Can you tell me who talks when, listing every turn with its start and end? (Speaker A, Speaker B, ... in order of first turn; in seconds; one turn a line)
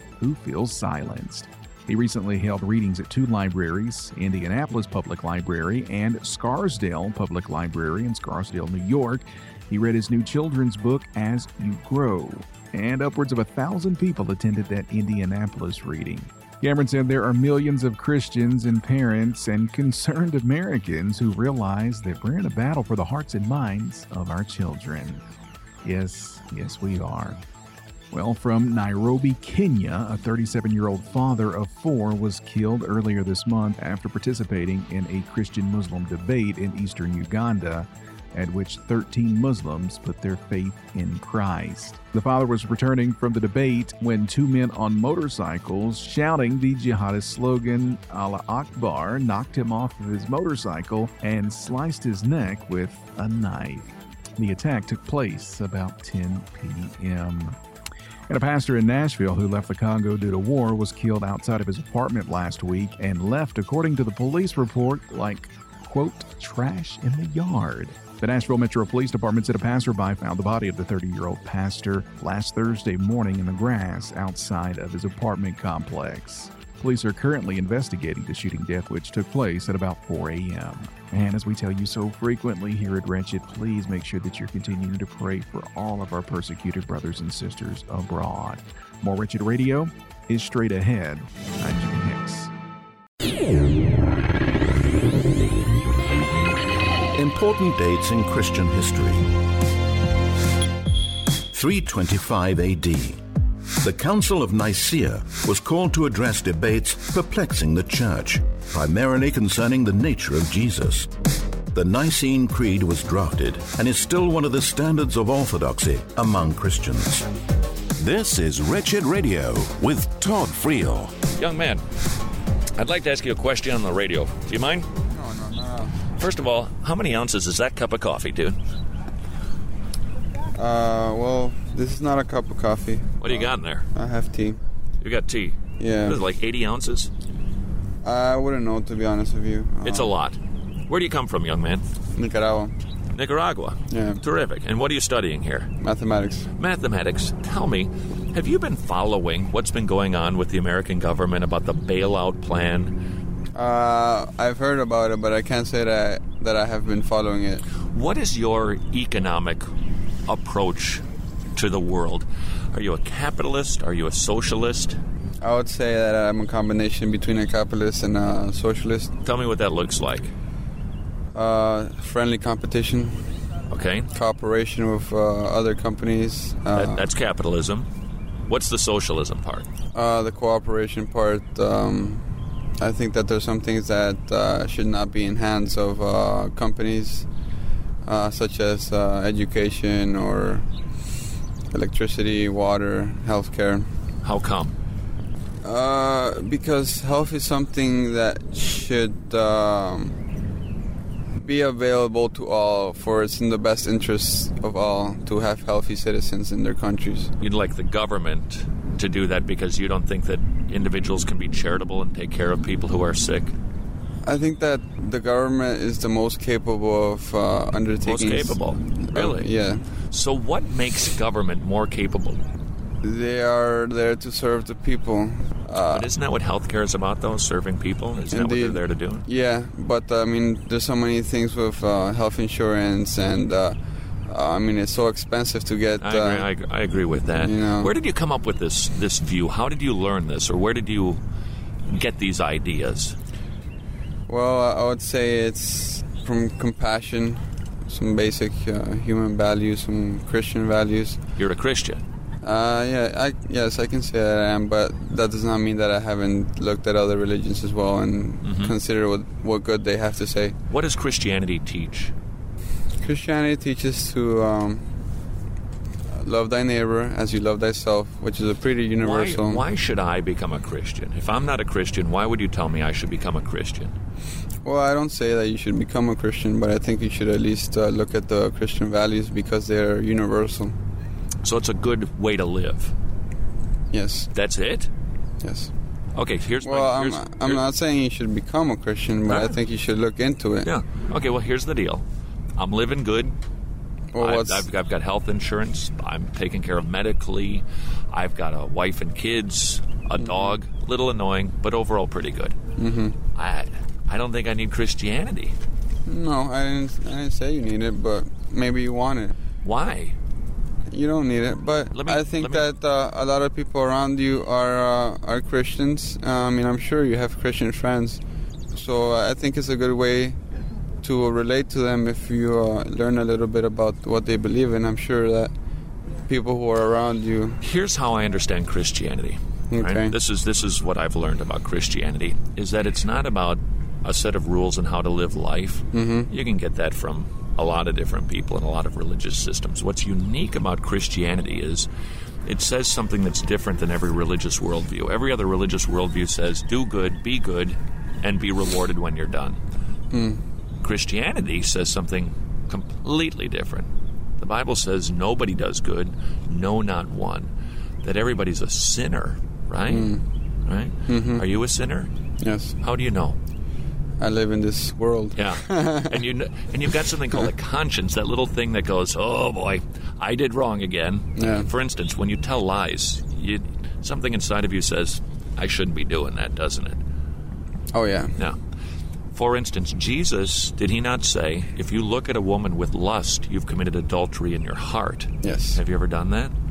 Speaker A: 0.2-25.2
Speaker A: 25.8-27.4
Speaker A: 28.1-57.6
Speaker A: 58.3-92.5
Speaker B: 97.2-99.3
Speaker B: 101.5-103.2
Speaker B: 103.8-111.1
Speaker B: 111.7-117.3
Speaker C: 118.0-121.1
Speaker D: 121.4-121.8
Speaker D: 122.8-124.9
Speaker E: 125.1-125.9
Speaker D: 126.2-128.6
Speaker E: 130.6-134.6
Speaker D: 133.2-133.9
Speaker D: 135.0-137.1
Speaker E: 135.8-136.2
Speaker E: 138.0-140.1
Speaker D: 139.8-141.8
Speaker E: 142.2-142.7
Speaker D: 143.1-145.7
Speaker E: 143.9-144.2
Speaker E: 145.8-146.5
Speaker D: 146.6-153.0
Speaker E: 153.6-157.6
Speaker D: 157.9-159.7
Speaker D: 160.3-161.0
Speaker D: 161.6-165.0
Speaker E: 165.4-169.2
Speaker D: 169.2-170.3
Speaker E: 171.3-173.3
Speaker D: 173.7-174.1
Speaker E: 174.1-177.1
Speaker D: 176.7-177.9
Speaker D: 178.5-179.7
Speaker E: 179.9-182.2
Speaker E: 182.8-187.3
Speaker E: 188.0-190.7
Speaker E: 191.7-193.9
Speaker D: 194.2-194.8
Speaker E: 195.6-200.2
Speaker E: 201.4-207.3
Speaker D: 207.4-213.5
Speaker E: 214.2-219.8
Speaker D: 218.0-219.5
Speaker D: 220.1-222.4
Speaker E: 223.0-226.1
Speaker D: 225.9-229.3
Speaker E: 228.3-233.8
Speaker E: 234.3-236.5
Speaker D: 236.0-241.2
Speaker E: 237.4-237.9
Speaker D: 241.9-243.2
Speaker E: 244.3-251.2
Speaker D: 251.4-252.0
Speaker E: 252.4-260.6
Speaker D: 258.4-258.7
Speaker D: 260.7-262.1
Speaker E: 263.0-264.8
Speaker E: 266.2-269.6
Speaker D: 269.0-273.9
Speaker E: 274.6-280.8
Speaker D: 281.4-282.9
Speaker E: 283.9-284.3
Speaker D: 284.3-284.9
Speaker E: 285.4-285.7
Speaker D: 286.2-287.6
Speaker E: 286.6-290.7
Speaker D: 289.3-289.5
Speaker D: 290.6-292.1
Speaker D: 292.6-293.4
Speaker E: 294.1-294.7
Speaker D: 294.2-302.6
Speaker E: 300.2-300.5
Speaker E: 302.8-303.2
Speaker D: 303.4-305.6
Speaker E: 306.1-309.4
Speaker D: 309.6-310.2
Speaker E: 310.9-318.2
Speaker D: 311.9-312.7
Speaker E: 318.7-320.4
Speaker E: 321.0-325.5
Speaker E: 326.3-327.6
Speaker D: 327.6-341.9
Speaker E: 329.7-330.1
Speaker E: 335.9-336.3
Speaker D: 342.5-349.6
Speaker E: 350.1-350.4
Speaker D: 350.8-357.5
Speaker D: 358.0-360.1
Speaker E: 359.9-360.2
Speaker D: 360.7-362.1
Speaker E: 361.1-361.4
Speaker E: 362.4-362.8
Speaker D: 362.8-363.4
Speaker E: 364.2-366.2
Speaker D: 365.4-377.0
Speaker E: 371.4-371.7
Speaker E: 377.9-378.3
Speaker D: 379.3-386.6
Speaker E: 385.4-385.8